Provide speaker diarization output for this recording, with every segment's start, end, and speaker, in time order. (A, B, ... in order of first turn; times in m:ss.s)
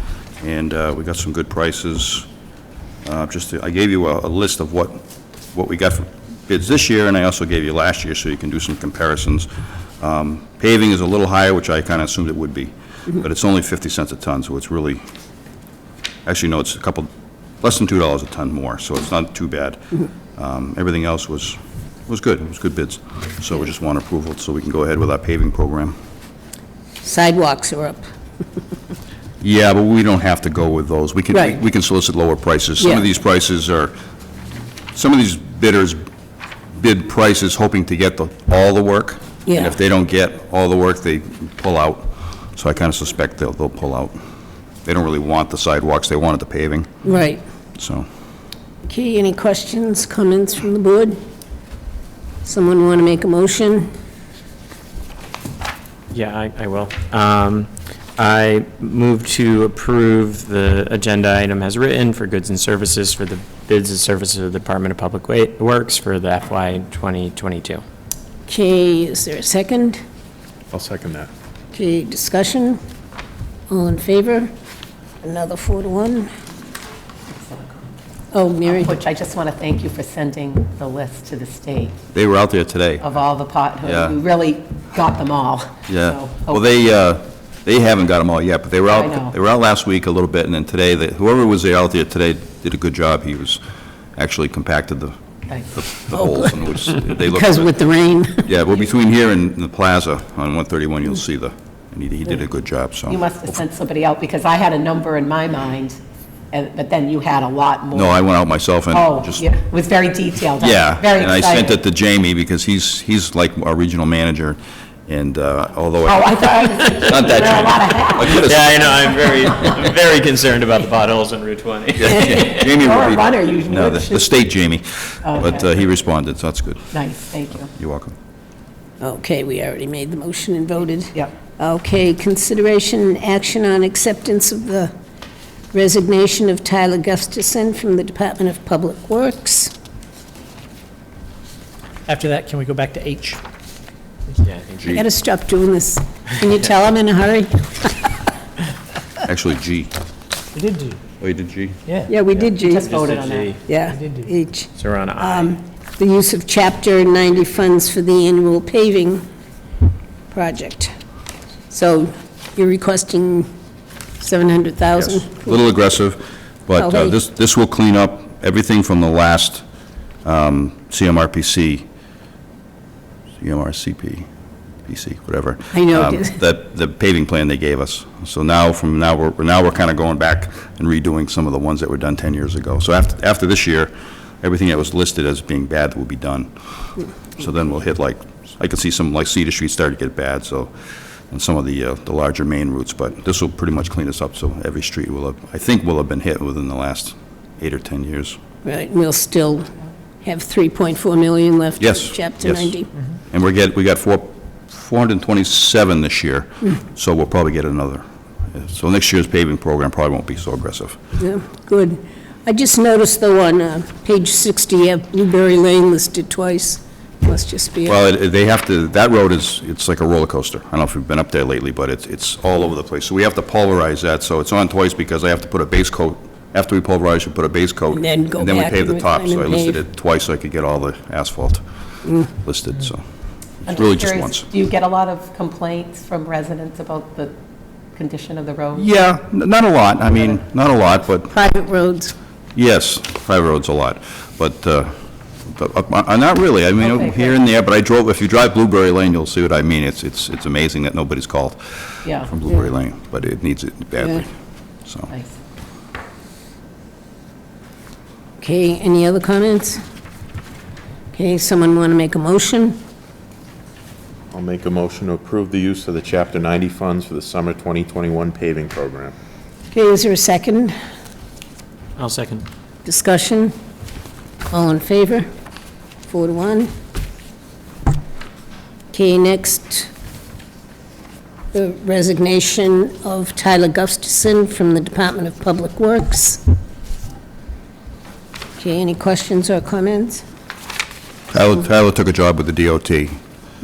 0:00.4-0:02.3 A
0:03.0-0:09.5 A
0:10.0-0:15.0 A
0:16.2-0:17.1 A
0:17.6-0:19.8 A
0:20.4-0:25.9 A
0:27.0-0:28.0 B
0:29.4-0:33.9 A
0:31.3-0:31.6 B
0:32.8-0:33.1 B
0:34.9-0:36.0 A
0:36.8-0:44.2 A
0:39.4-0:39.8 B
0:44.8-0:46.9 A
0:47.0-0:47.4 B
0:47.8-0:48.0 A
0:48.8-0:51.2 B
0:52.4-0:53.9 B
0:56.1-1:07.8 C
1:08.5-1:10.0 B
1:10.7-1:11.3 D
1:11.7-1:12.8 B
1:13.7-1:14.5 B
1:15.2-1:16.3 B
1:17.3-1:17.9 E
1:18.3-1:18.9 B
1:18.7-1:22.0 E
1:22.1-1:23.0 A
1:23.0-1:26.6 E
1:23.8-1:24.2 A
1:25.9-1:33.6 A
1:28.9-1:29.3 E
1:34.2-1:35.2 A
1:35.7-1:37.7 A
1:36.1-1:38.5 B
1:38.4-1:43.6 A
1:43.1-1:46.0 E
1:46.5-1:48.2 E
1:47.9-1:49.5 A
1:48.9-1:51.8 E
1:50.6-1:58.8 A
1:56.0-1:59.6 E
1:58.2-2:02.5 C
2:02.0-2:07.0 A
2:02.1-2:04.3 E
2:05.2-2:05.7 E
2:06.9-2:07.7 E
2:07.7-2:08.1 A
2:09.0-2:14.9 B
2:15.7-2:19.7 B
2:22.1-2:23.4 F
2:24.4-2:24.8 C
2:24.8-2:28.2 B
2:29.2-2:29.9 A
2:30.5-2:31.0 F
2:31.2-2:31.8 A
2:31.9-2:32.1 F
2:32.0-2:32.9 B
2:32.3-2:33.6 C
2:32.6-2:33.6 E
2:33.7-2:39.2 B
2:34.8-2:35.5 C
2:40.3-2:40.9 B
2:41.7-2:43.5 B
2:44.2-2:45.6 B
2:45.0-2:49.6 A
2:46.8-2:47.2 B
2:50.2-2:51.8 A
2:53.4-2:54.3 A
2:54.8-3:06.5 A
2:55.7-2:56.4 B
3:07.4-3:10.7 A
3:11.3-3:18.4 A
3:18.6-3:19.7 B
3:20.2-3:22.9 B
3:21.8-3:22.8 A
3:23.3-3:31.0 A
3:31.2-3:38.0 B
3:37.9-3:51.6 A
3:47.9-3:49.8 B
3:52.0-3:52.3 B
3:52.3-3:53.0 A
3:53.6-3:54.5 A
3:53.7-3:57.4 E
3:57.9-3:58.9 E
3:58.7-4:01.3 A
4:01.3-4:02.1 B
4:02.5-4:04.9 A
4:05.5-4:14.3 A
4:06.8-4:07.4 E
4:12.0-4:12.3 E
4:14.8-4:15.1 A
4:15.1-4:15.4 E
4:18.4-4:19.8 B
4:21.1-4:22.8 B
4:24.3-4:29.1 D
4:29.7-4:30.8 B
4:32.0-4:32.4 C
4:32.8-4:33.5 B
4:34.5-4:35.3 B
4:36.1-4:36.7 B
4:38.9-4:39.9 B
4:41.5-4:46.4 B
4:48.6-4:50.2 B
4:51.3-4:53.2 A